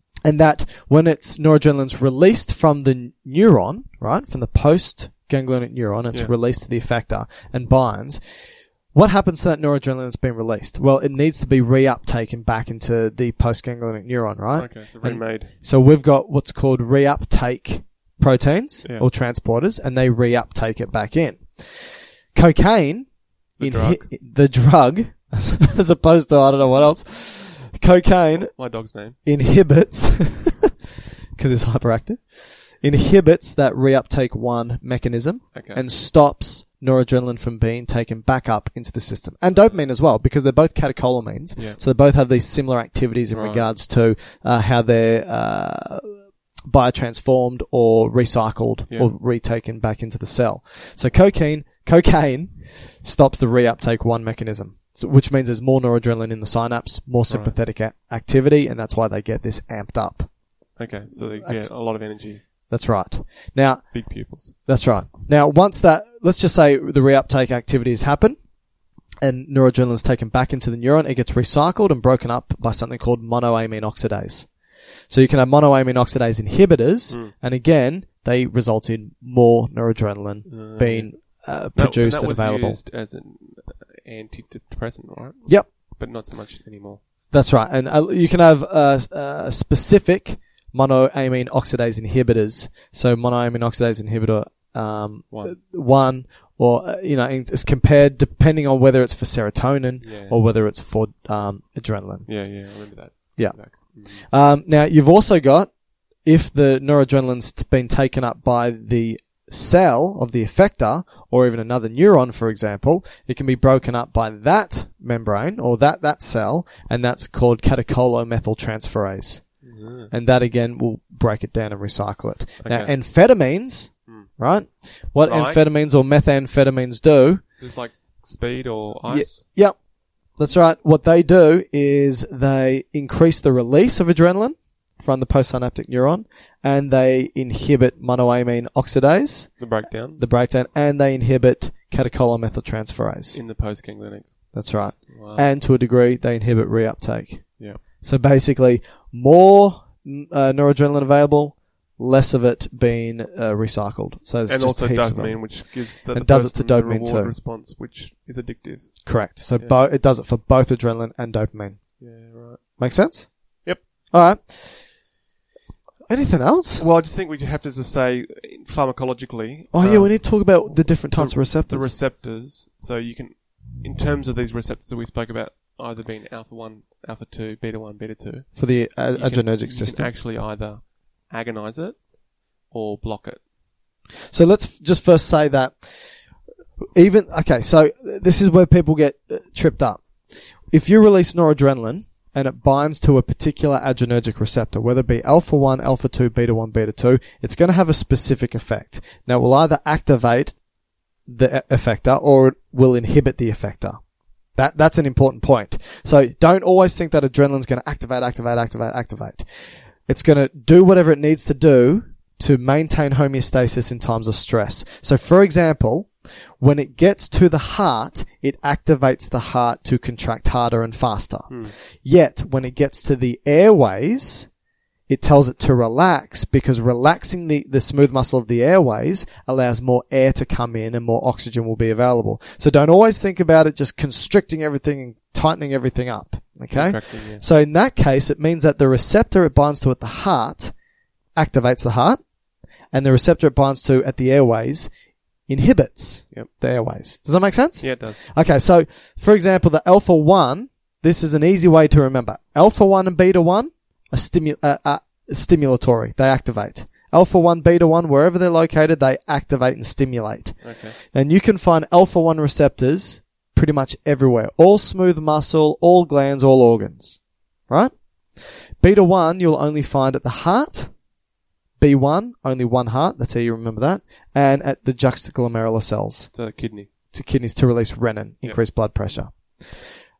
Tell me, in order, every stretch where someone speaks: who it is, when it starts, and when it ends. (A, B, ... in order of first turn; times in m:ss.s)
0:00.2-0:28.6 A
0:14.6-0:15.5 B
0:23.6-0:24.1 B
0:28.5-0:29.2 B
0:29.2-0:30.7 A
0:31.4-1:00.3 A
0:35.5-0:35.8 B
0:39.5-0:39.8 B
0:43.3-0:43.7 B
0:57.3-0:57.5 B
1:00.8-1:02.4 B
1:01.1-1:01.7 A
1:02.7-1:08.4 A
1:03.9-1:04.6 B
1:09.2-1:14.5 A
1:15.1-1:22.8 A
1:17.1-1:17.3 B
1:20.5-1:27.0 B
1:27.3-1:42.8 A
1:35.3-1:35.6 B
1:40.0-1:40.4 B
1:42.2-1:44.2 B
1:43.4-1:59.5 A
1:59.6-2:00.1 B
2:00.1-2:07.4 A
2:02.6-2:02.9 B
2:05.2-2:05.6 B
2:07.6-2:09.5 B
2:09.1-2:09.8 A
2:10.3-2:23.4 A
2:19.6-2:20.2 B
2:23.3-2:25.5 B
2:24.5-2:37.3 A
2:34.5-2:39.8 B
2:39.0-2:41.9 A
2:42.0-2:42.6 B
2:42.8-2:44.9 A
2:46.1-2:46.8 A
2:46.8-3:02.1 B
2:49.7-2:51.9 A
2:58.6-3:00.1 A
3:02.6-3:03.4 B
3:04.3-3:06.2 A
3:06.9-3:10.0 A
3:10.7-3:20.6 A
3:21.3-3:24.0 A
3:24.6-3:29.5 A
3:30.0-3:44.5 A
3:41.5-3:41.7 B
3:45.1-4:00.7 A
3:56.7-3:57.4 B
4:01.4-4:02.2 A
4:02.9-4:04.9 A
4:05.5-4:30.9 A
4:07.8-4:08.2 B
4:20.6-4:21.0 B
4:31.8-4:36.3 A
4:36.3-4:36.9 B
4:37.1-4:39.8 A